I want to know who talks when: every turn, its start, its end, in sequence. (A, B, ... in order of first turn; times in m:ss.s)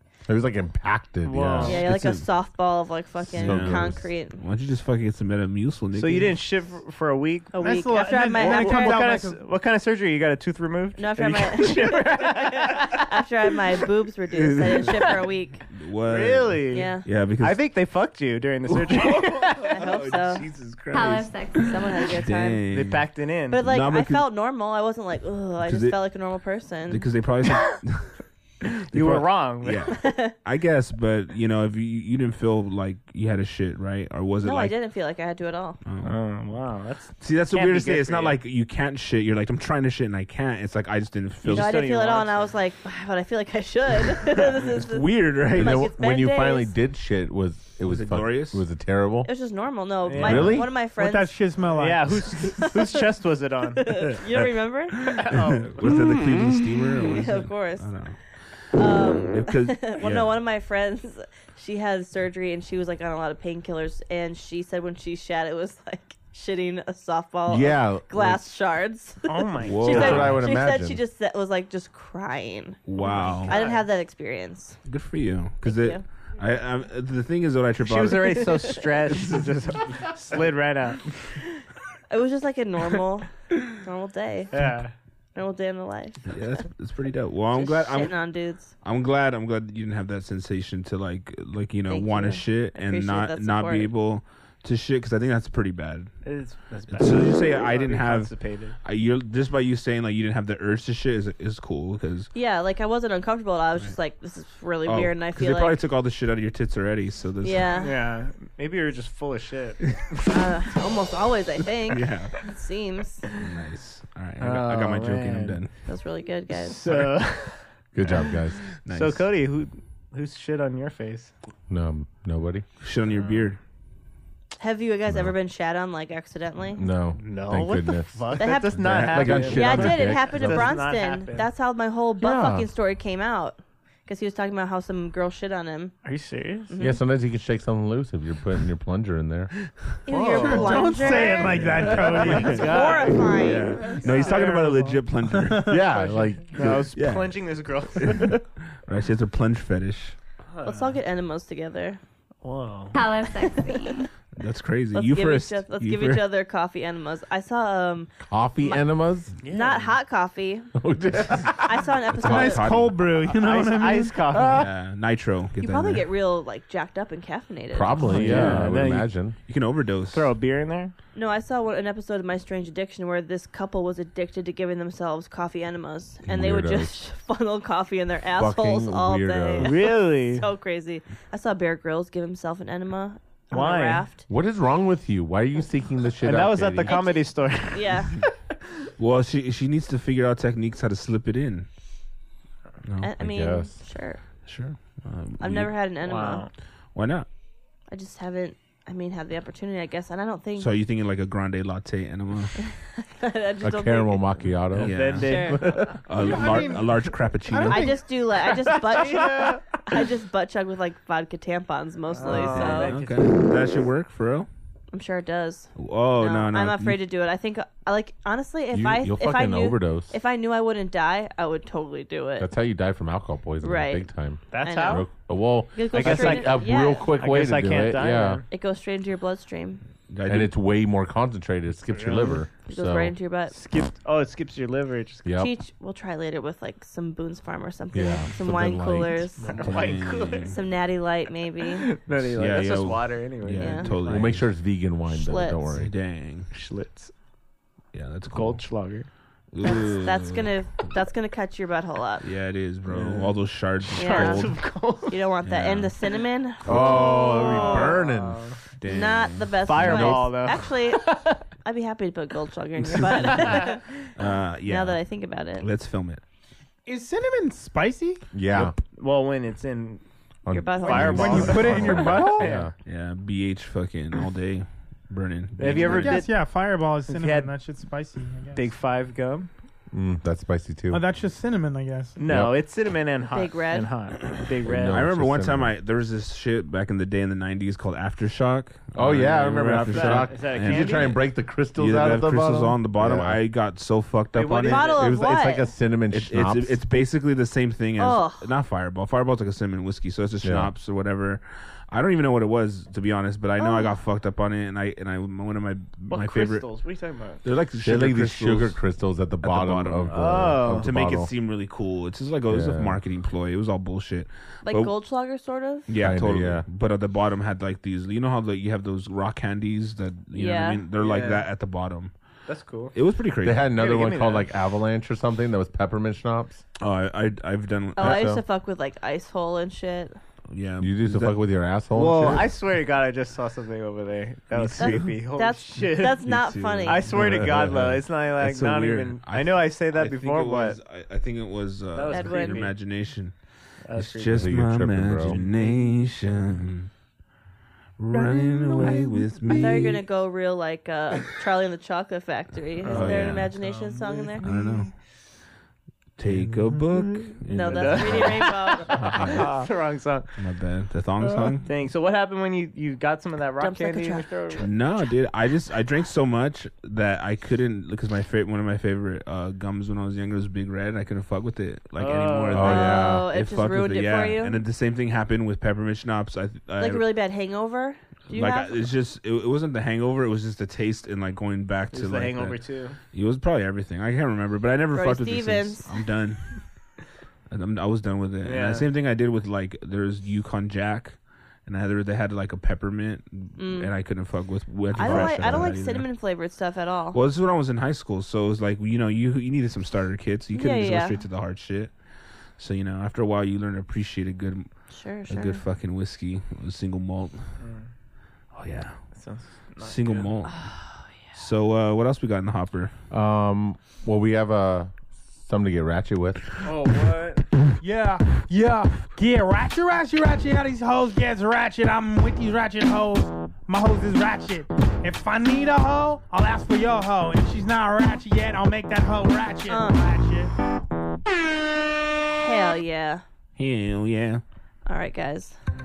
0:00.3-0:01.8 A
0:01.2-0:01.8 B
0:01.6-0:02.2 C
0:01.6-0:04.4 D
0:03.2-0:04.0 A
0:03.3-0:06.4 C
0:05.9-0:07.7 B
0:07.5-0:09.0 D
0:07.6-0:09.4 E
0:08.4-0:13.0 B
0:11.0-0:15.6 D
0:14.4-0:14.9 C
0:15.7-0:17.6 C
0:16.0-0:19.8 B
0:16.7-0:17.1 D
0:18.7-0:21.4 C
0:19.7-0:20.4 D
0:20.9-0:22.1 F
0:21.6-0:22.6 D
0:22.1-0:23.1 C
0:22.7-0:23.6 B
0:23.5-0:27.1 D
0:23.6-0:24.2 C
0:25.6-0:26.0 C
0:26.9-0:28.2 C
0:28.9-0:34.7 C
0:28.9-0:29.9 B
0:30.0-0:30.3 D
0:34.4-0:35.8 D
0:35.8-0:36.2 C
0:36.0-0:38.4 B
0:37.2-0:41.7 C
0:41.4-0:42.5 B
0:41.5-0:46.7 D
0:44.7-0:45.9 C
0:45.5-0:49.3 A
0:47.8-0:48.6 C
0:49.2-0:51.4 D
0:50.1-0:50.7 B
0:50.1-0:50.7 A
0:50.8-0:52.1 E
0:51.7-0:54.0 B
0:52.3-0:53.0 D
0:53.8-0:55.1 D
0:55.0-0:58.2 C
0:55.2-0:55.9 B
0:57.1-0:57.9 D
0:58.7-1:14.8 D
0:59.3-1:00.3 C
1:07.5-1:08.4 A
1:09.2-1:10.2 B
1:09.6-1:10.4 C
1:09.8-1:11.0 A
1:12.9-1:13.5 C
1:13.0-1:13.8 B
1:14.8-1:19.4 C
1:15.6-1:16.0 D
1:17.8-1:21.2 B
1:22.1-1:24.5 D
1:24.5-1:24.9 B
1:25.3-1:26.4 D
1:26.3-1:28.1 C
1:27.5-1:28.7 D
1:28.8-1:36.2 C
1:31.9-1:33.9 D
1:36.2-1:38.8 B
1:36.9-1:42.3 C
1:42.3-1:45.8 D
1:44.8-1:47.7 C
1:47.4-1:47.9 D
1:47.8-1:49.9 B
1:50.3-1:53.2 D
1:51.9-1:52.4 C
1:53.3-1:55.7 C
1:54.4-1:55.6 B
1:55.8-1:56.8 D
1:56.5-1:57.7 B
1:57.9-1:58.7 A
1:58.8-1:59.3 C
1:58.9-2:01.3 B
2:01.7-2:02.6 A
2:02.8-2:03.6 C
2:03.1-2:03.5 B
2:04.6-2:06.8 D
2:05.1-2:05.3 A
2:06.8-2:10.7 A
2:07.2-2:11.5 B
2:08.4-2:15.9 D
2:08.9-2:09.6 C
2:12.2-2:12.7 A
2:16.0-2:16.7 B
2:16.7-2:17.0 D
2:16.8-2:19.5 A
2:20.0-2:23.9 D
2:20.1-2:23.3 B
2:20.3-2:23.1 E
2:21.8-2:25.8 C
2:23.9-2:24.8 B
2:24.2-2:24.7 E
2:25.3-2:25.8 E
2:25.6-2:26.9 A
2:25.9-2:28.3 B
2:26.9-2:30.2 C
2:30.5-2:31.0 B
2:30.6-2:32.0 D
2:32.4-2:33.0 B
2:32.9-2:34.0 F
2:33.4-2:33.9 D
2:34.4-2:36.2 C
2:34.9-2:40.7 D
2:38.2-2:39.3 A
2:39.4-2:39.9 B
2:40.7-2:41.8 A
2:41.5-2:42.7 D
2:42.1-2:43.1 C
2:42.2-2:44.3 E
2:43.3-2:44.7 B
2:44.3-2:44.6 A
2:44.5-2:46.0 C
2:45.6-2:48.1 D
2:47.7-2:49.4 A
2:48.1-2:48.7 C
2:48.1-2:49.1 B
2:49.5-2:50.3 C
2:50.1-2:50.9 B
2:51.1-3:04.2 D
2:56.2-2:57.0 A
2:58.3-2:59.8 A
2:59.6-3:00.5 B
3:03.5-3:04.0 B
3:04.3-3:07.0 A
3:06.2-3:08.3 B
3:06.8-3:08.2 D
3:09.0-3:11.7 C
3:13.0-3:14.2 D
3:13.2-3:13.8 A
3:14.4-3:15.7 C
3:15.4-3:16.4 D
3:16.0-3:16.5 B
3:16.9-3:17.3 C
3:17.9-3:20.7 D
3:20.6-3:22.6 C
3:22.6-3:24.4 D
3:23.6-3:26.0 A
3:24.7-3:26.1 B
3:24.7-3:27.9 C
3:25.2-3:25.6 D
3:26.2-3:28.1 E
3:27.7-3:33.0 D
3:28.7-3:29.6 B
3:32.1-3:33.4 B
3:32.3-3:34.5 C
3:34.9-3:42.5 D
3:35.8-3:37.0 C
3:38.7-3:40.1 A
3:42.4-3:48.4 A
3:43.6-3:44.1 D
3:44.5-3:45.1 B
3:44.6-3:45.1 D
3:45.7-3:47.1 D
3:45.9-3:48.4 B
3:48.5-3:49.8 D
3:50.1-3:50.5 C
3:50.2-3:53.1 A
3:51.9-3:52.4 B
3:52.7-3:53.5 D
3:53.5-3:55.3 B
3:55.2-3:55.5 A
3:55.4-3:59.8 D
3:57.9-3:59.3 A
3:59.4-4:00.6 B
3:59.6-4:00.6 C
4:00.4-4:01.9 D
4:01.6-4:04.3 B
4:02.3-4:04.5 C
4:03.6-4:03.9 D
4:04.0-4:05.9 A
4:05.1-4:05.6 D
4:05.7-4:06.5 C
4:06.5-4:07.1 B
4:07.9-4:08.7 C
4:08.3-4:09.1 B
4:09.5-4:10.5 C
4:09.6-4:12.2 D
4:12.2-4:14.6 C
4:12.9-4:15.2 B
4:14.0-4:18.0 D
4:15.4-4:15.9 C
4:16.6-4:18.4 A
4:16.7-4:18.6 B
4:18.8-4:19.8 C
4:18.9-4:24.1 D
4:19.6-4:21.4 B
4:19.8-4:20.3 A
4:22.9-4:23.7 B
4:24.2-4:25.0 C
4:24.6-4:25.6 D
4:25.6-4:26.2 C
4:26.8-4:28.2 E
4:28.3-4:28.8 A
4:28.5-4:30.0 B
4:30.4-4:32.7 A
4:30.5-4:31.6 D
4:30.8-4:32.7 B
4:30.8-4:32.5 E
4:32.8-4:36.2 C
4:35.6-4:36.5 B
4:35.8-4:38.7 E
4:37.1-4:37.5 B
4:38.5-4:39.5 B
4:39.9-4:41.0 A
4:40.9-4:42.2 E
4:42.2-4:45.0 B
4:42.2-4:42.5 A
4:43.3-4:43.9 D
4:44.6-4:45.7 A
4:44.9-4:54.8 C
4:48.9-4:53.4 A
4:49.8-4:51.2 B
4:54.3-4:55.2 B
4:54.7-4:55.7 D
4:54.8-4:56.8 A
4:56.1-5:06.7 C
4:58.0-4:58.4 D
5:00.4-5:00.7 A
5:03.6-5:04.0 D
5:06.1-5:07.4 B
5:07.4-5:08.8 C
5:07.8-5:11.3 A
5:09.4-5:14.9 C
5:10.1-5:10.9 B
5:12.5-5:13.0 A
5:14.6-5:15.8 D
5:15.9-5:22.1 C
5:16.0-5:16.6 A
5:20.3-5:20.8 D
5:21.0-5:21.5 B
5:22.5-5:22.9 B
5:22.9-5:23.6 C
5:23.4-5:26.6 A
5:23.7-5:24.5 B
5:26.8-5:28.3 C
5:28.0-5:30.2 D
5:28.0-5:28.4 A
5:30.5-5:31.4 C
5:30.8-5:32.5 A
5:31.9-5:36.2 B
5:34.5-5:35.2 C
5:34.8-5:37.0 D
5:36.2-5:43.4 C
5:36.8-5:40.8 B
5:37.2-5:37.8 A
5:41.9-5:42.7 B
5:42.1-5:42.6 D
5:43.8-5:44.5 B
5:43.9-5:46.9 C
5:44.3-5:45.4 A
5:45.2-5:46.0 B
5:48.0-5:50.0 C
5:48.7-5:49.8 B
5:49.6-5:54.4 D
5:52.8-5:54.9 B
5:52.9-5:53.5 C
5:54.4-5:54.9 C
5:56.2-5:59.5 C
5:57.5-5:59.0 D
5:57.6-6:00.3 B
6:00.4-6:01.7 C
6:01.6-6:04.6 B
6:03.6-6:04.9 D
6:04.6-6:17.0 C
6:12.0-6:12.8 B
6:12.5-6:13.3 A
6:12.6-6:14.6 D
6:16.8-6:18.8 D
6:18.3-6:22.6 C
6:21.9-6:23.0 B
6:23.1-6:26.5 C
6:24.9-6:25.9 D
6:27.5-6:36.1 C
6:28.4-6:28.9 B
6:33.6-6:33.9 D
6:34.9-6:37.2 D
6:35.0-6:35.6 B
6:35.2-6:35.6 A
6:37.1-6:42.0 C
6:40.5-6:41.2 D
6:42.5-6:47.6 C
6:44.9-6:45.6 D
6:47.6-6:47.9 B
6:48.5-6:49.2 C
6:49.1-6:50.3 B
6:49.8-6:50.7 C
6:50.5-6:51.3 D
6:51.3-6:52.9 C
6:53.1-6:56.5 A
6:56.6-6:57.4 B
6:57.8-7:10.5 E
7:09.7-7:10.0 D
7:12.3-7:13.2 D
7:13.6-7:14.4 C
7:14.8-7:15.6 D